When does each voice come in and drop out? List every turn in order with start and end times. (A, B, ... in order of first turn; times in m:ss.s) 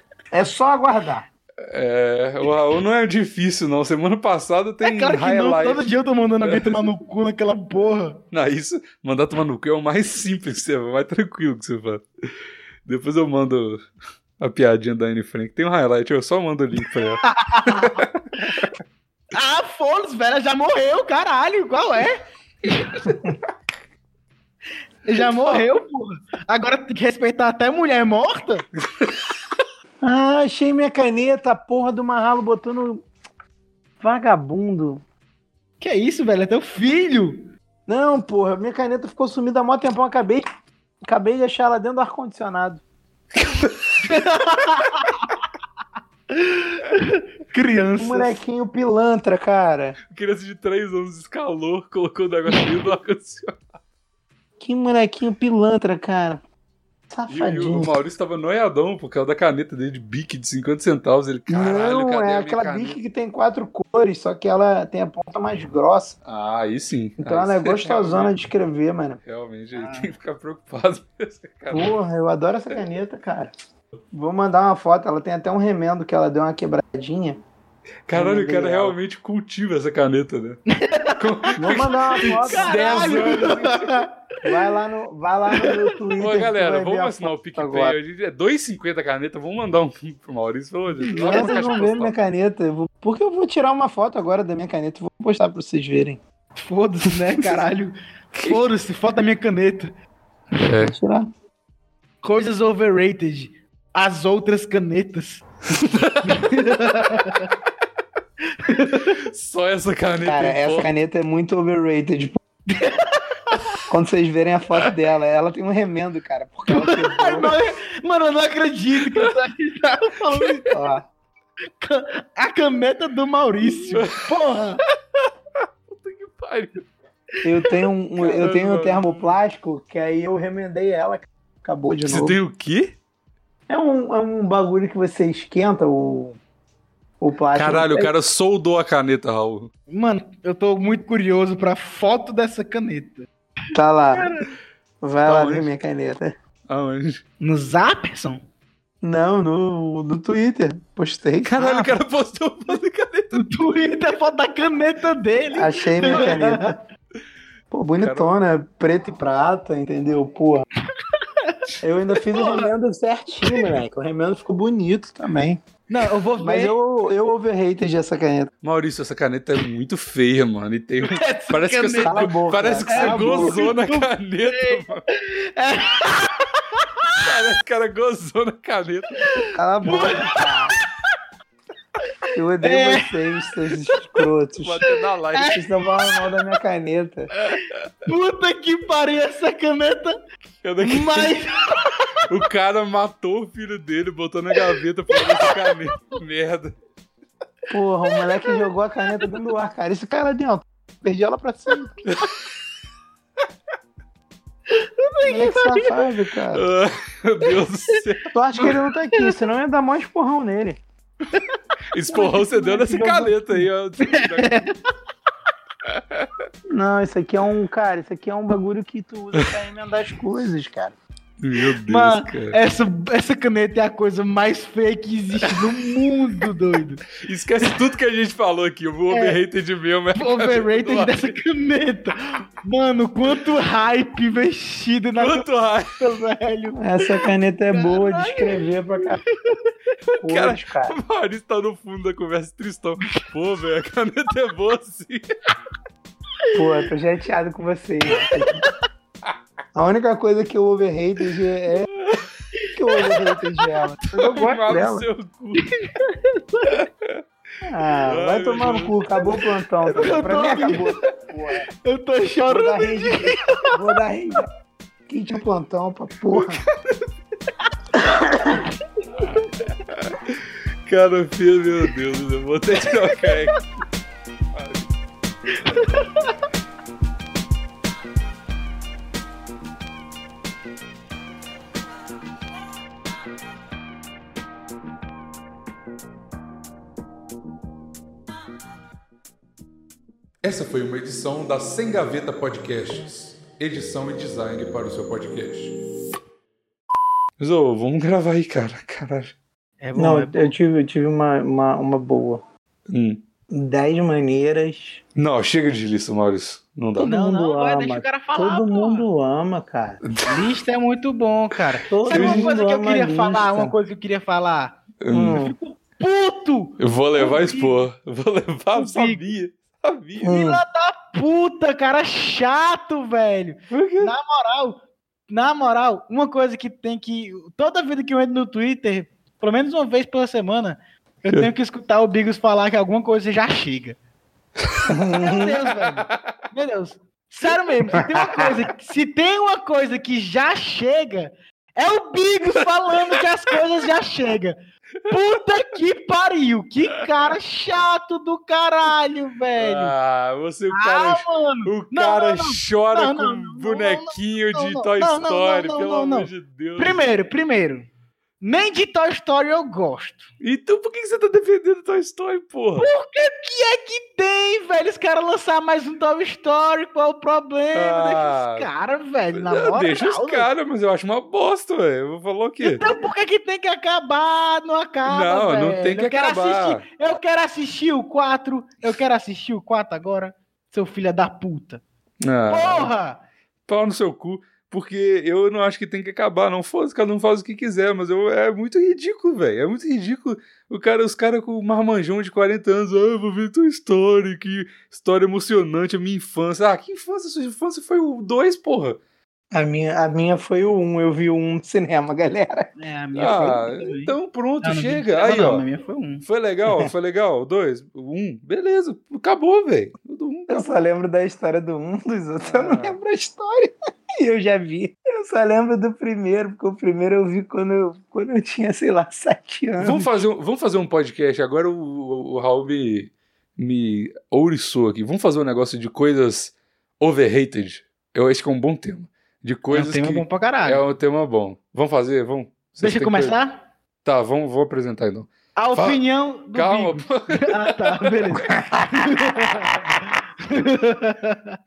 0:00.3-0:01.3 A
0:01.7-0:05.9 B
0:04.8-0:08.2 C
0:06.4-0:06.8 B
0:08.3-0:12.0 B
0:12.8-0:13.8 B
0:14.4-0:18.8 B
0:16.9-0:18.0 C
0:19.3-0:23.2 C
0:23.1-0:23.4 A
0:25.1-0:28.7 C
0:25.2-0:25.6 B
0:29.0-0:29.3 B
0:30.0-0:33.0 A
0:34.0-0:35.0 A
0:35.8-0:37.5 C
0:37.9-0:40.5 A
0:41.0-0:42.8 A
0:43.4-0:44.1 B
0:44.0-0:45.4 C
0:46.3-0:48.3 C
0:48.0-0:50.0 A
0:50.1-0:53.6 B
0:54.6-0:56.4 A
0:57.1-0:58.0 A
0:57.3-1:03.0 B
1:01.5-1:06.2 A
1:06.2-1:08.3 B
1:07.2-1:09.2 A
1:09.3-1:12.0 B
1:09.8-1:10.1 C
1:11.7-1:13.5 A
1:14.1-1:17.4 A
1:18.1-1:20.6 B
1:18.1-1:19.0 A
1:20.7-1:24.7 C
1:21.2-1:24.0 B
1:21.6-1:23.8 A
1:24.4-1:28.0 A
1:25.5-1:25.9 C
1:26.2-1:32.1 B
1:31.0-1:31.9 C
1:31.1-1:36.2 A
1:36.6-1:39.9 C
1:37.1-1:37.6 B
1:38.3-1:38.6 B
1:40.6-1:40.9 B
1:40.8-1:41.3 A
1:42.2-1:45.5 C
1:45.7-1:46.5 B
1:46.2-1:47.5 C
1:48.5-1:49.2 C
1:48.9-1:50.9 B
1:50.2-1:52.4 A
1:52.7-1:53.7 C
1:53.9-1:57.5 A
1:56.7-2:00.7 C
2:00.7-2:01.0 A
2:01.8-2:04.8 C
2:03.6-2:04.3 B
2:05.6-2:06.9 B
2:07.4-2:12.4 A
2:08.2-2:09.4 B
2:12.0-2:13.0 B
2:13.7-2:16.4 A
2:17.2-2:18.1 A
2:17.5-2:19.7 B
2:19.9-2:23.3 C
2:23.7-2:24.3 A
2:24.2-2:24.5 C
2:25.0-2:26.3 A
2:25.2-2:25.7 B
2:26.7-2:27.2 B
2:27.4-2:28.4 C
2:29.0-2:32.0 A
2:31.4-2:33.4 B
2:33.3-2:36.8 C
2:35.5-2:36.8 A
2:37.7-2:40.7 A
2:38.0-2:38.4 B
2:41.0-2:41.6 C
2:41.8-2:45.6 A
2:42.2-2:42.7 C
2:45.9-2:46.8 C
2:46.4-2:48.5 A
2:48.6-2:55.0 B
2:51.0-2:52.3 C
2:52.0-2:53.7 A
2:52.9-2:57.2 C
2:57.2-2:59.5 B
2:59.3-3:00.8 C
2:59.5-3:00.8 A
3:02.3-3:04.8 A
3:02.6-3:04.2 C
3:04.6-3:05.6 B
3:05.4-3:06.2 C
3:05.4-3:07.3 A
3:07.5-3:10.2 C
3:10.6-3:11.4 B
3:10.8-3:12.3 C
3:12.2-3:16.8 B
3:15.1-3:16.0 C
3:17.7-3:22.1 A
3:18.1-3:18.6 C
3:22.0-3:22.3 B
3:24.7-3:26.0 C
3:25.2-3:26.7 A
3:26.5-3:28.3 B
3:28.3-3:30.8 A
3:28.6-3:29.4 C
3:31.9-3:34.7 B
3:32.2-3:33.3 C
3:32.6-3:33.3 A
3:34.0-3:34.7 C
3:35.9-3:36.4 B
3:36.7-3:41.0 A
3:41.4-3:42.6 B
3:41.7-3:47.0 C
3:47.2-3:51.3 B
3:49.1-3:49.4 C
3:50.2-3:59.7 C
3:55.2-3:56.0 B
3:56.8-3:59.2 A
4:00.1-4:05.3 B
4:00.2-4:01.0 A
4:06.5-4:08.7 A
4:08.1-4:08.7 C
4:09.8-4:11.9 A
4:12.0-4:12.2 B
4:12.6-4:13.7 C
4:12.7-4:15.1 A
4:14.1-4:15.7 B
4:15.6-4:16.8 C
4:16.7-4:17.2 B
4:17.6-4:21.7 A
4:18.1-4:19.4 B
4:19.9-4:21.0 C
4:21.8-4:23.8 C
4:22.5-4:24.5 A
4:25.1-4:26.6 A
4:28.0-4:28.6 A
4:29.3-4:33.6 B
4:33.1-4:33.5 C
4:34.6-4:34.8 B
4:35.7-4:36.3 C
4:50.4-4:55.8 B
4:57.4-4:59.4 B
4:59.8-5:00.6 C
5:00.0-5:02.4 A
5:02.9-5:03.2 B
5:03.5-5:05.0 A
5:05.2-5:07.2 B
5:07.0-5:10.0 A
5:07.0-5:09.1 C
5:10.0-5:10.4 B
5:10.2-5:17.9 C
5:11.9-5:13.8 A
5:12.1-5:12.5 B
5:15.0-5:15.4 B
5:15.1-5:15.6 A
5:16.8-5:20.4 B
5:18.8-5:19.2 C
5:20.2-5:20.6 A
5:20.2-5:24.8 C
5:23.7-5:24.1 B
5:25.3-5:34.0 C
5:34.6-5:36.3 B
5:34.9-5:35.6 A
5:35.1-5:44.6 C
5:37.9-5:38.5 A
5:45.1-5:50.0 C
5:49.6-5:57.0 B
5:50.7-5:57.9 C
5:58.4-6:00.3 C
6:00.4-6:02.9 B
6:02.8-6:10.5 C
6:07.7-6:08.7 B
6:09.3-6:12.8 B
6:12.6-6:21.8 C
6:15.0-6:16.8 B
6:22.2-6:22.9 B
6:22.5-6:23.2 C
6:23.7-6:39.0 B
6:39.5-6:42.7 A
6:42.8-6:46.2 C
6:43.2-6:45.6 B
6:46.2-6:50.8 B
6:50.5-7:00.2 A
6:52.5-6:53.0 B
6:59.8-7:13.4 B
7:09.7-7:10.8 C
7:12.8-7:13.6 C
7:14.0-7:18.9 B
7:15.6-7:21.6 C
7:19.4-7:19.7 B